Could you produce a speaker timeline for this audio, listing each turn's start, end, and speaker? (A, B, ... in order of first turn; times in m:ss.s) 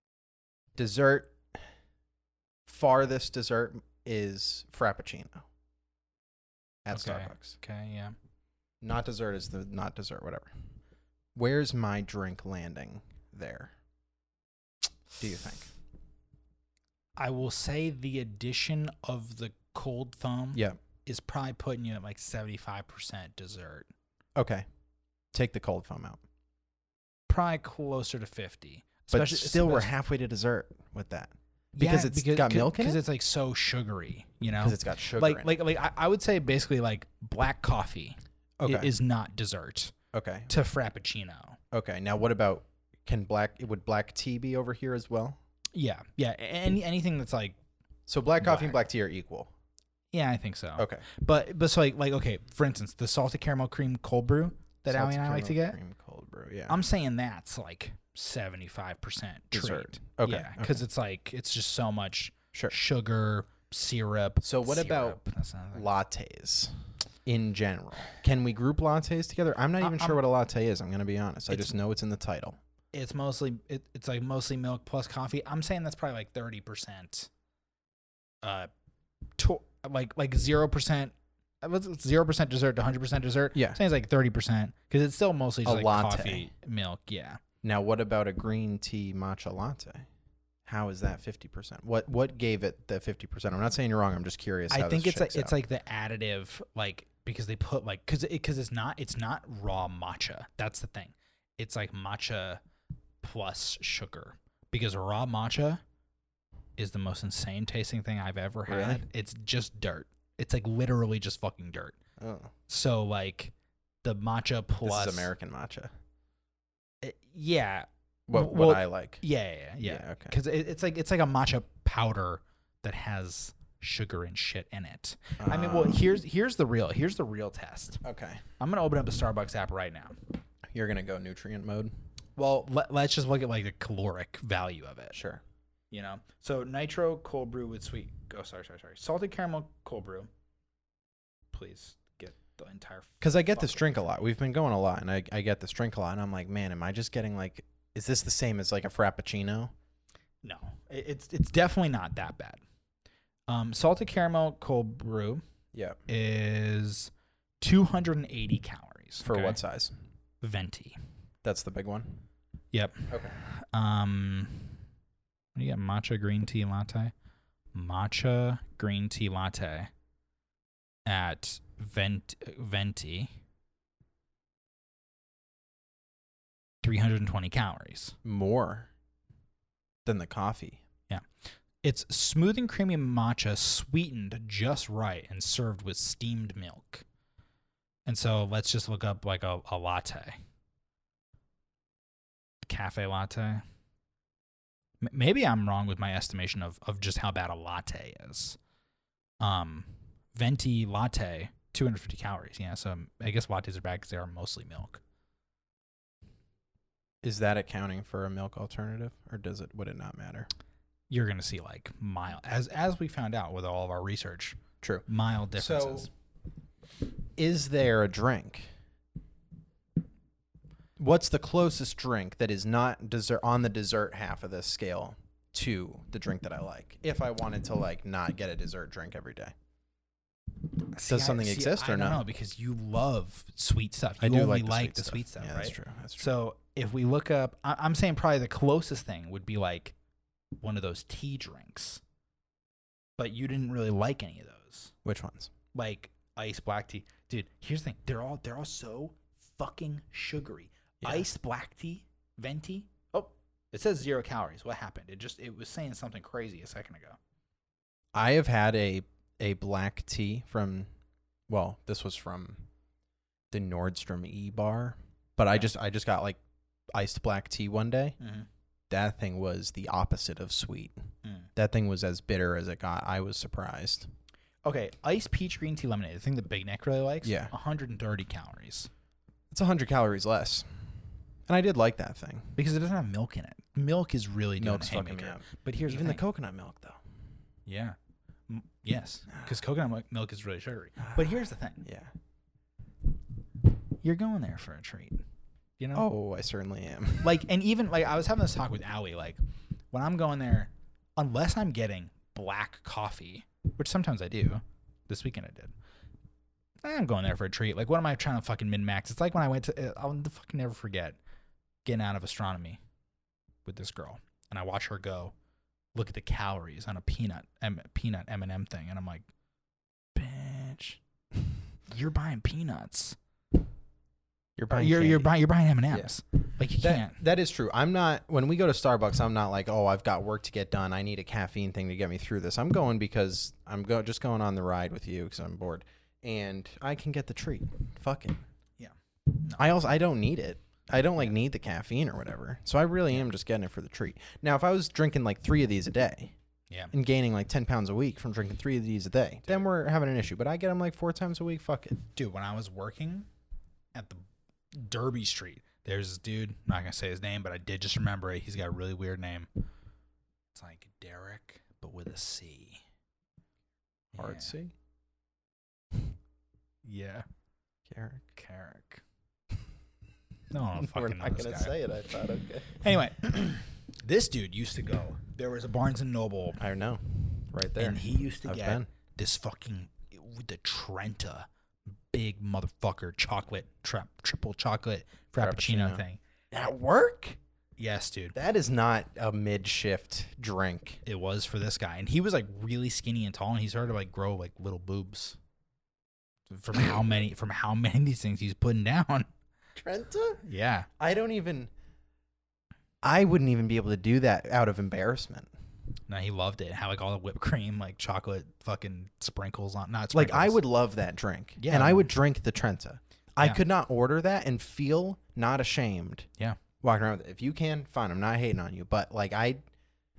0:00.8-0:01.6 A
0:02.7-0:05.4 A
0:06.8-0:07.6 A
0:06.9-0:08.2 B
0:08.8-0:10.5 A
0:11.4-0:13.7 A
0:15.2-0:15.7 A
0:17.2-0:23.9 B
0:24.4-0:24.6 A
0:25.3-0:26.2 A
0:27.3-0:29.9 B
0:29.1-0:33.0 A
0:31.8-0:39.9 B
0:34.6-0:35.5 A
0:38.6-0:38.9 A
0:40.1-0:40.5 A
0:40.5-0:41.6 B
0:41.7-0:45.4 A
0:45.7-0:47.6 B
0:48.1-0:49.5 A
0:48.4-0:48.8 B
0:50.1-0:55.8 B
0:50.8-0:51.1 A
0:54.9-0:56.8 A
0:56.7-1:05.9 B
0:59.5-1:00.8 A
1:04.4-1:05.2 A
1:05.7-1:12.6 A
1:09.8-1:10.2 B
1:12.9-1:17.3 B
1:18.4-1:18.7 B
1:19.4-1:27.4 B
1:23.5-1:23.8 A
1:25.6-1:26.5 A
1:27.6-1:30.1 A
1:30.7-1:35.6 A
1:34.7-1:42.6 B
1:43.2-1:45.8 B
1:46.8-1:52.0 B
1:48.7-1:49.0 A
1:52.2-1:52.5 A
1:52.7-1:55.3 B
1:54.8-1:55.9 A
1:57.0-2:08.0 B
1:58.3-1:59.2 A
1:59.8-2:00.4 A
2:05.4-2:06.1 A
2:08.0-2:08.4 A
2:08.6-2:10.2 B
2:10.7-2:11.9 A
2:12.4-2:15.2 B
2:15.1-2:15.4 A
2:15.9-2:20.3 B
2:21.5-2:24.0 B
2:23.2-2:29.7 A
2:30.4-2:32.6 B
2:33.5-2:35.4 B
2:35.7-2:36.0 A
2:36.1-2:39.6 B
2:39.2-2:40.0 A
2:40.4-2:41.0 B
2:41.4-2:42.2 A
2:42.7-2:44.8 B
2:43.1-2:43.4 A
2:45.6-2:47.1 B
2:47.7-2:49.9 B
2:51.1-2:53.3 B
2:56.8-2:58.2 B
2:58.2-2:58.9 A
3:00.0-3:00.8 A
3:01.8-3:07.0 B
3:08.1-3:10.4 B
3:12.6-3:13.6 B
3:15.0-3:18.6 B
3:19.4-3:25.0 B
3:27.2-3:30.5 A
3:31.1-3:36.1 B
3:34.8-3:36.1 A
3:37.4-3:38.7 A
3:41.0-3:49.5 A
3:51.0-4:00.0 B
3:51.1-3:52.2 A
3:54.2-3:56.3 A
4:00.6-4:02.0 B
4:03.2-4:04.9 B
4:05.0-4:05.5 A
4:05.7-4:17.2 B
4:11.0-4:11.3 A
4:18.1-4:20.9 A
4:21.5-4:22.7 A
4:23.5-4:26.4 A
4:26.9-4:28.2 A
4:28.2-4:28.5 B
4:28.9-4:31.0 A
4:31.2-4:31.5 B
4:31.6-4:34.1 A
4:34.6-4:38.9 B
4:37.2-4:37.5 A
4:39.5-4:40.7 A
4:41.5-4:42.6 A
4:42.6-4:46.2 B
4:44.6-4:47.0 A
4:47.7-4:48.0 B
4:48.5-4:51.9 B
4:51.0-4:52.1 A
4:54.0-4:55.2 B
4:55.8-4:56.1 B
4:56.0-4:57.4 A
4:57.2-4:59.4 B
4:59.9-5:05.7 B
5:06.8-5:11.2 B
5:11.8-5:12.8 B
5:13.6-5:15.3 B
5:16.0-5:19.3 B
5:20.2-5:21.0 B
5:21.9-5:23.2 B
5:24.6-5:25.3 A
5:24.7-5:27.2 B
5:25.9-5:26.2 A
5:26.8-5:38.4 A
5:38.8-5:39.7 B
5:39.6-5:46.3 A
5:46.9-5:52.0 A
5:52.2-5:53.3 B
5:54.0-5:59.5 B
6:00.5-6:02.8 B
6:04.1-6:04.5 B
6:04.2-6:04.7 A
6:06.8-6:07.3 B
6:07.9-6:08.2 A
6:08.4-6:09.0 B
6:10.5-6:11.8 B
6:10.8-6:12.9 A
6:12.8-6:16.6 B
6:16.6-6:18.9 A
6:17.8-6:21.5 B
6:22.1-6:26.2 B
6:25.4-6:27.4 A
6:27.8-6:28.4 B
6:28.4-6:31.0 A
6:31.0-6:35.4 B
6:36.5-6:39.3 B
6:39.8-6:40.4 A
6:40.4-6:40.9 B
6:41.0-6:41.7 A
6:43.0-6:45.5 A
6:46.1-6:50.6 B
6:50.1-6:56.3 A
6:51.6-6:52.1 B
6:56.8-6:59.6 A